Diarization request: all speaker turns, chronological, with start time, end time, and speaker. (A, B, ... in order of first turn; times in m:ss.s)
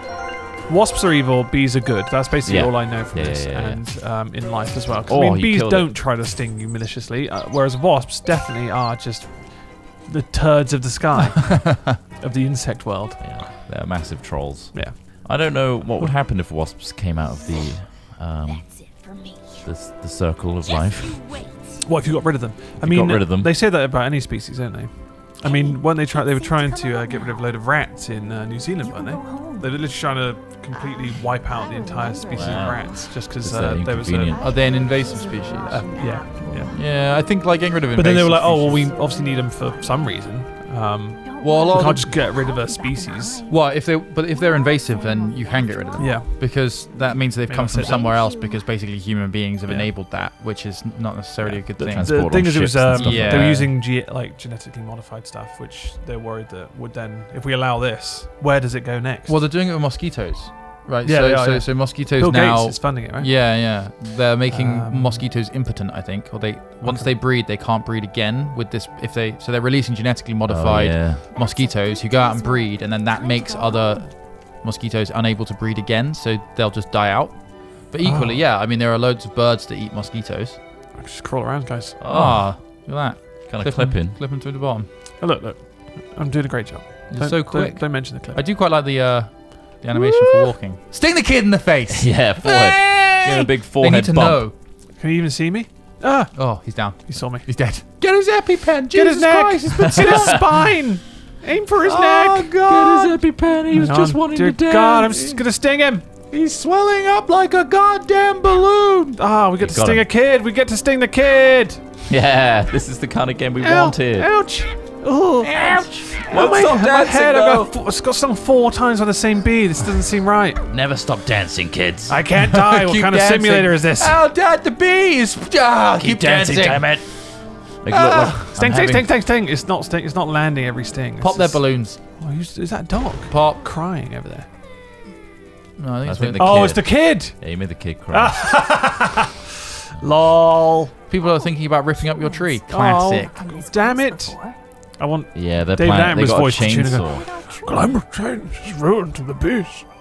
0:00.7-0:13.4 A
0:02.4-0:03.9 B
0:05.1-0:05.9 B
0:11.6-0:12.0 C
0:13.2-0:19.0 B
0:14.7-0:16.1 A
0:17.4-0:19.7 D
0:19.6-0:21.4 B
0:20.6-0:21.8 D
0:21.8-0:34.4 A
0:22.8-0:23.5 B
0:25.4-0:27.5 D
0:28.8-0:30.0 D
0:30.5-0:33.2 D
0:32.3-0:34.3 B
0:34.3-0:37.3 D
0:34.3-0:38.9 C
0:35.9-0:36.8 A
0:37.9-0:43.4 A
0:38.6-0:40.5 D
0:41.2-0:48.7 D
0:41.4-0:42.2 C
0:43.5-0:53.7 C
0:46.0-0:46.4 A
0:47.4-0:48.2 A
0:49.6-0:49.9 A
0:51.4-0:59.4 A
0:51.9-0:53.7 B
0:59.3-1:20.6 C
1:01.0-1:03.4 A
1:04.5-1:05.3 A
1:06.8-1:07.1 A
1:10.4-1:11.3 B
1:11.3-1:14.1 D
1:18.0-1:18.4 A
1:20.9-1:22.0 A
1:22.0-1:22.9 B
1:22.0-1:24.9 C
1:23.5-1:24.2 B
1:25.2-1:28.4 A
1:27.1-1:34.5 C
1:29.9-1:30.5 A
1:31.9-1:34.5 B
1:34.9-1:37.5 A
1:36.3-1:40.4 C
1:38.9-1:42.5 A
1:41.8-1:43.2 C
1:42.6-1:45.4 B
1:43.7-1:46.1 A
1:46.3-1:49.2 C
1:49.2-1:51.8 A
1:49.6-1:50.0 B
1:52.1-1:54.5 B
1:53.6-2:00.6 A
1:55.4-1:57.7 B
2:00.7-2:02.2 B
2:02.1-2:04.2 A
2:02.6-2:08.5 C
2:06.0-2:09.1 B
2:08.4-2:14.5 A
2:11.2-2:12.0 C
2:13.3-2:13.6 C
2:15.8-2:16.8 C
2:16.0-2:18.8 B
2:16.4-2:19.3 A
2:20.0-2:20.9 A
2:21.1-2:23.3 C
2:21.1-2:24.6 D
2:22.7-2:29.9 A
2:25.3-2:27.3 B
2:27.0-2:28.0 D